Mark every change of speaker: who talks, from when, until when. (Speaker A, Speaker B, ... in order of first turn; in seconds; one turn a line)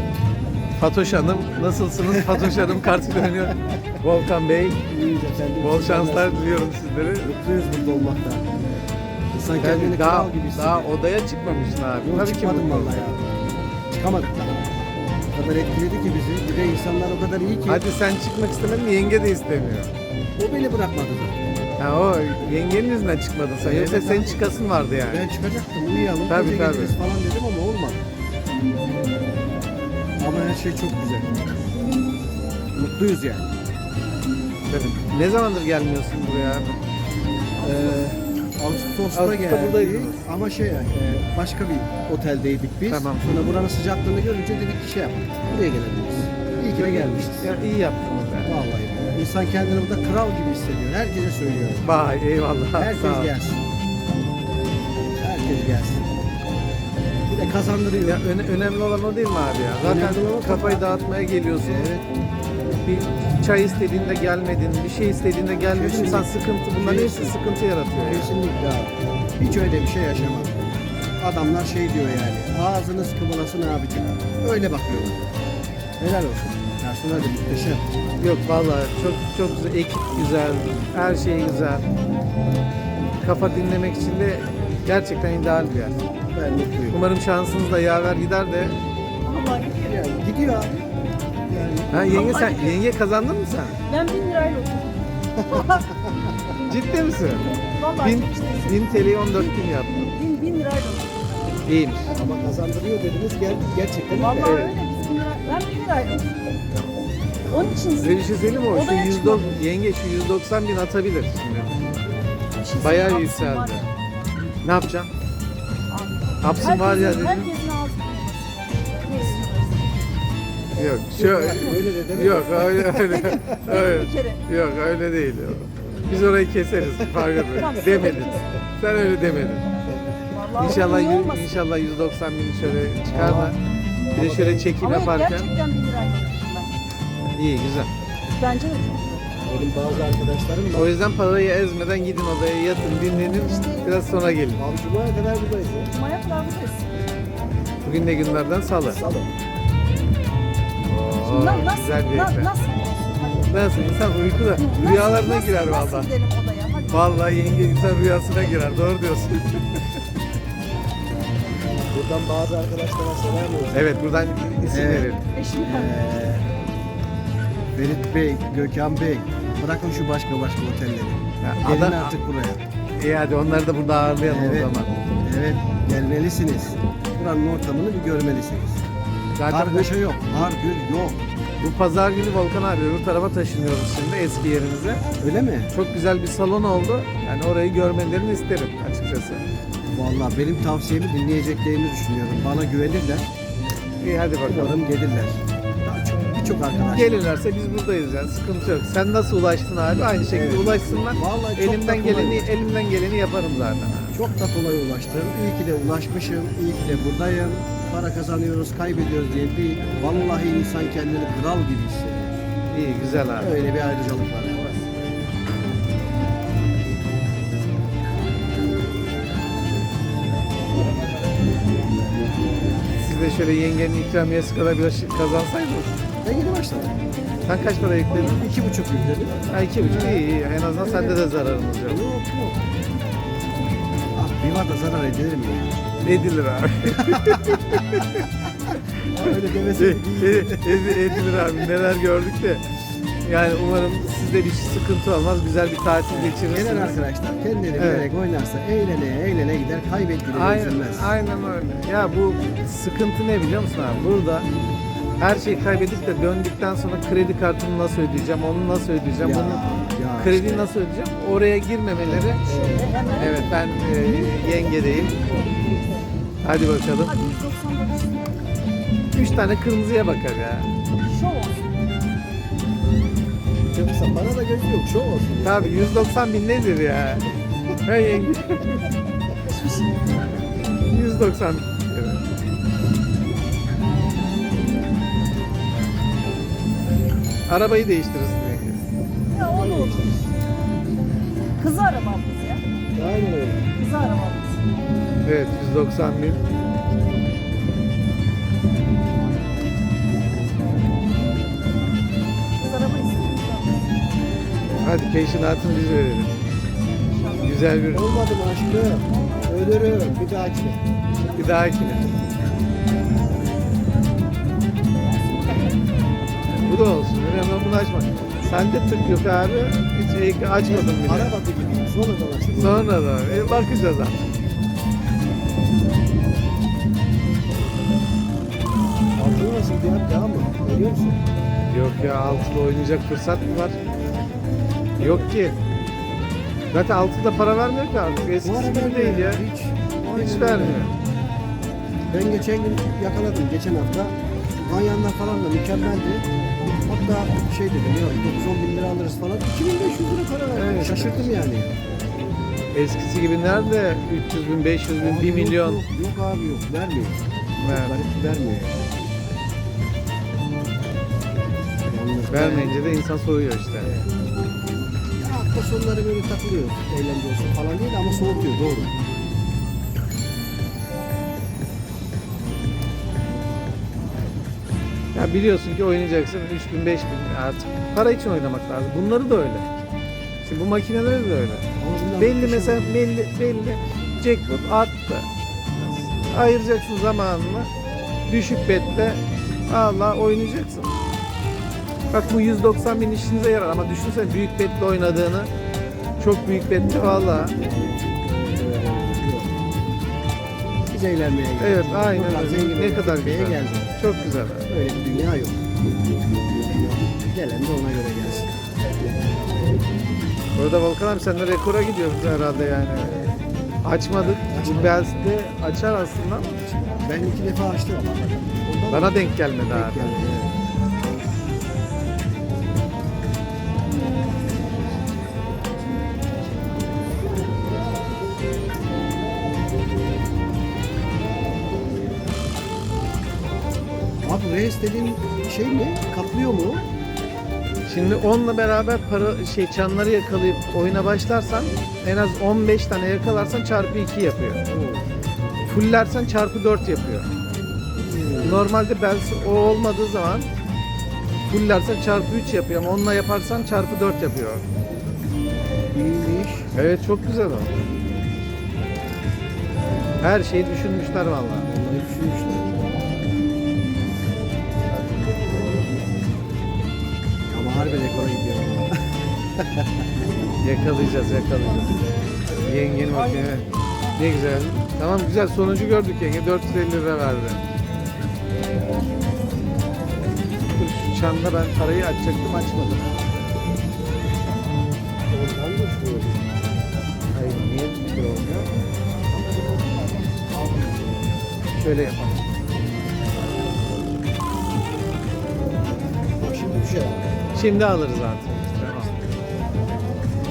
Speaker A: 0.8-4.8
Speaker B: 2.1-3.5
Speaker B: 4.9-6.7
Speaker A: 5.6-7.3
Speaker B: 7.2-8.4
Speaker B: 9.3-10.9
Speaker A: 9.6-13.1
Speaker B: 12.0-13.3
Speaker B: 13.9-14.7
Speaker B: 15.3-17.8
Speaker A: 17.7-19.9
Speaker B: 20.4-21.4
Speaker A: 21.8-25.3
Speaker B: 23.6-24.4
Speaker B: 25.0-28.0
Speaker A: 26.3-27.0
Speaker B: 30.2-31.3
Speaker B: 32.7-33.5
Speaker A: 34.7-36.8
Speaker B: 37.6-47.5
Speaker A: 39.1-40.2
Speaker A: 42.9-43.5
Speaker A: 46.7-48.5
Speaker B: 48.4-51.9
Speaker A: 51.8-53.3
Speaker B: 52.7-53.6
Speaker B: 55.2-56.1
Speaker B: 57.3-58.2
Speaker A: 58.0-61.9
Speaker B: 59.8-62.0
Speaker A: 62.8-68.3
Speaker B: 65.7-67.4
Speaker B: 68.0-75.3
Speaker B: 76.0-77.8
Speaker A: 77.1-77.3
Speaker A: 78.2-81.8
Speaker A: 83.2-86.0
Speaker B: 86.3-87.0
Speaker A: 86.9-88.8
Speaker C: 89.2-90.0
Speaker B: 89.8-90.9
Speaker B: 91.5-92.3
Speaker A: 91.9-93.8
Speaker C: 92.1-92.8
Speaker C: 93.8-95.8
Speaker B: 95.4-96.3
Speaker A: 96.7-97.4
Speaker C: 97.8-101.6
Speaker A: 98.0-100.1
Speaker A: 101.6-102.1
Speaker B: 102.1-104.6
Speaker C: 104.1-106.3
Speaker A: 104.4-104.7
Speaker C: 107.5-109.6
Speaker A: 107.9-112.1
Speaker C: 112.6-114.1
Speaker A: 112.8-113.8
Speaker A: 114.6-115.1
Speaker C: 115.9-120.2
Speaker A: 116.4-117.5
Speaker A: 120.8-129.6
Speaker B: 121.1-123.3
Speaker C: 123.0-124.4
Speaker B: 127.2-127.5
Speaker C: 127.5-128.4
Speaker C: 130.3-131.5
Speaker A: 130.6-133.6
Speaker B: 133.1-133.5
Speaker B: 134.1-134.8
Speaker A: 134.1-135.5
Speaker C: 134.8-136.8
Speaker A: 137.3-137.9
Speaker C: 138.3-139.7
Speaker B: 139.5-140.9
Speaker A: 140.7-144.6
Speaker C: 143.3-144.1
Speaker B: 144.6-145.9
Speaker C: 145.9-147.1
Speaker A: 147.8-149.0
Speaker B: 148.9-149.3
Speaker A: 150.9-152.5
Speaker C: 151.2-157.4
Speaker A: 153.4-156.1
Speaker A: 156.9-159.8
Speaker B: 161.9-163.9
Speaker A: 163.7-165.2
Speaker B: 164.7-166.5
Speaker C: 165.3-165.9
Speaker B: 167.7-172.6
Speaker A: 171.4-172.1
Speaker A: 173.0-174.9
Speaker B: 174.2-178.8
Speaker A: 179.3-179.9
Speaker B: 179.5-181.2
Speaker A: 181.6-185.0
Speaker B: 185.2-185.7
Speaker A: 185.7-189.4
Speaker B: 189.9-193.2
Speaker A: 194.0-194.8
Speaker B: 194.4-197.2
Speaker A: 196.9-204.2
Speaker B: 200.3-202.5
Speaker B: 204.1-212.4
Speaker A: 212.7-213.6
Speaker B: 213.4-214.8
Speaker A: 223.0-226.0
Speaker B: 226.2-226.9
Speaker A: 227.4-228.5
Speaker B: 228.1-230.3
Speaker A: 229.5-232.0
Speaker B: 230.8-231.2
Speaker B: 231.8-232.6
Speaker B: 234.1-235.8
Speaker A: 236.0-238.2
Speaker B: 237.0-237.9
Speaker B: 239.1-241.5
Speaker A: 239.7-242.6
Speaker A: 243.2-247.0
Speaker B: 246.1-251.1
Speaker A: 247.8-248.1
Speaker A: 250.3-254.5
Speaker A: 255.2-262.5
Speaker B: 259.2-260.7
Speaker C: 262.1-266.0
Speaker B: 262.4-262.9
Speaker A: 263.2-265.1
Speaker A: 266.4-267.1
Speaker C: 267.0-268.4
Speaker A: 269.1-270.7
Speaker C: 271.0-271.9
Speaker B: 273.7-275.8
Speaker A: 275.4-277.3
Speaker A: 277.8-278.9
Speaker C: 279.4-280.0
Speaker A: 280.9-282.2
Speaker A: 287.5-288.8
Speaker C: 289.3-290.1
Speaker B: 289.5-290.2
Speaker C: 291.6-292.6
Speaker B: 292.9-293.7
Speaker C: 293.8-294.6
Speaker A: 295.2-296.4
Speaker C: 302.6-304.0
Speaker A: 304.8-306.3
Speaker C: 307.0-307.6
Speaker A: 307.4-308.2
Speaker B: 307.9-310.8
Speaker C: 309.1-309.6
Speaker C: 311.3-311.6
Speaker A: 311.4-312.2
Speaker C: 315.0-315.9
Speaker A: 316.6-321.3
Speaker B: 320.6-323.6
Speaker A: 322.6-324.3
Speaker B: 329.1-331.2
Speaker A: 331.7-333.8
Speaker A: 335.0-335.6
Speaker A: 336.7-339.4
Speaker B: 338.4-340.8
Speaker A: 340.1-340.9
Speaker B: 342.1-351.8
Speaker A: 350.5-351.3
Speaker A: 352.7-355.8
Speaker B: 354.9-359.0
Speaker A: 357.6-357.9
Speaker B: 361.9-362.8
Speaker A: 362.3-363.9
Speaker B: 363.8-364.1
Speaker B: 365.2-368.9
Speaker A: 375.1-379.8
Speaker A: 380.4-385.3
Speaker B: 381.8-383.0
Speaker A: 385.8-387.7
Speaker A: 388.3-391.0
Speaker A: 392.1-395.5
Speaker A: 396.2-397.5
Speaker B: 397.4-399.5
Speaker B: 400.9-403.9
Speaker A: 401.6-404.7
Speaker B: 404.7-405.6
Speaker B: 406.6-408.5
Speaker A: 410.6-413.3
Speaker A: 413.8-416.6
Speaker B: 414.1-415.1
Speaker B: 416.8-420.5
Speaker A: 418.9-420.1
Speaker B: 434.2-436.8
Speaker A: 437.9-444.6
Speaker B: 444.7-445.0
Speaker A: 445.7-447.3
Speaker B: 448.0-448.7
Speaker A: 448.4-450.5
Speaker A: 451.5-454.6
Speaker B: 455.9-456.7
Speaker A: 456.7-457.7
Speaker A: 460.2-461.7
Speaker B: 461.6-462.7
Speaker B: 467.5-469.0
Speaker B: 469.6-469.9
Speaker A: 470.6-472.0
Speaker A: 472.6-477.6
Speaker C: 473.0-474.4
Speaker A: 480.7-483.1
Speaker B: 485.3-486.4
Speaker A: 487.3-488.7
Speaker B: 489.7-491.1
Speaker A: 491.8-492.2
Speaker B: 495.8-497.4
Speaker A: 497.5-499.1